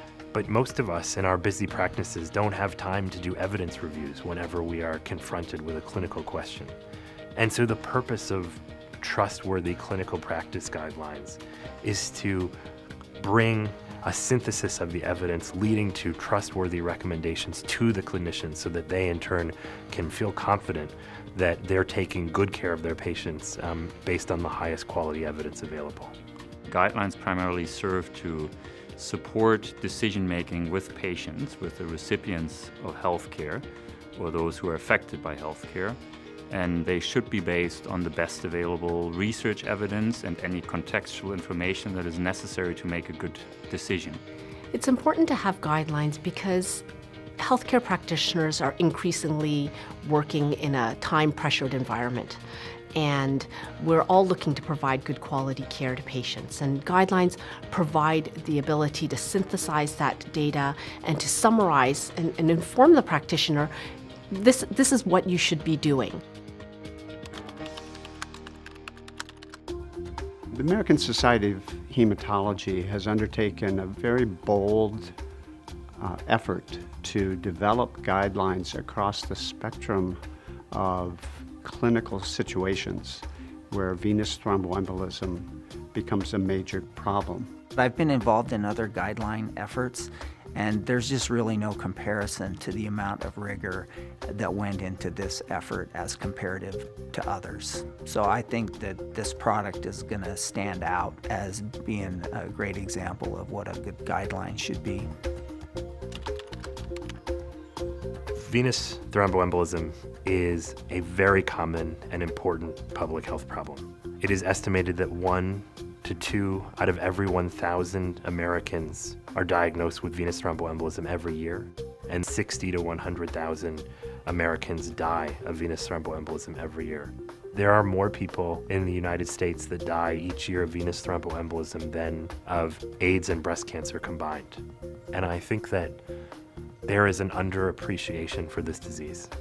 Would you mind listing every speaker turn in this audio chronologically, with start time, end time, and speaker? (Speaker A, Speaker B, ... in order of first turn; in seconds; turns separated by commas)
Speaker A: 0.3-6.8, Speaker A: 7.3-12.5, Speaker A: 13.2-26.1, Speaker B: 26.7-44.2, Speaker C: 44.7-46.8, Speaker C: 47.4-52.4, Speaker C: 52.9-63.7, Speaker C: 64.3-66.2, Speaker D: 70.5-75.2, Speaker D: 76.0-87.5, Speaker E: 87.7-105.1, Speaker A: 108.3-136.0, Speaker A: 136.8-139.3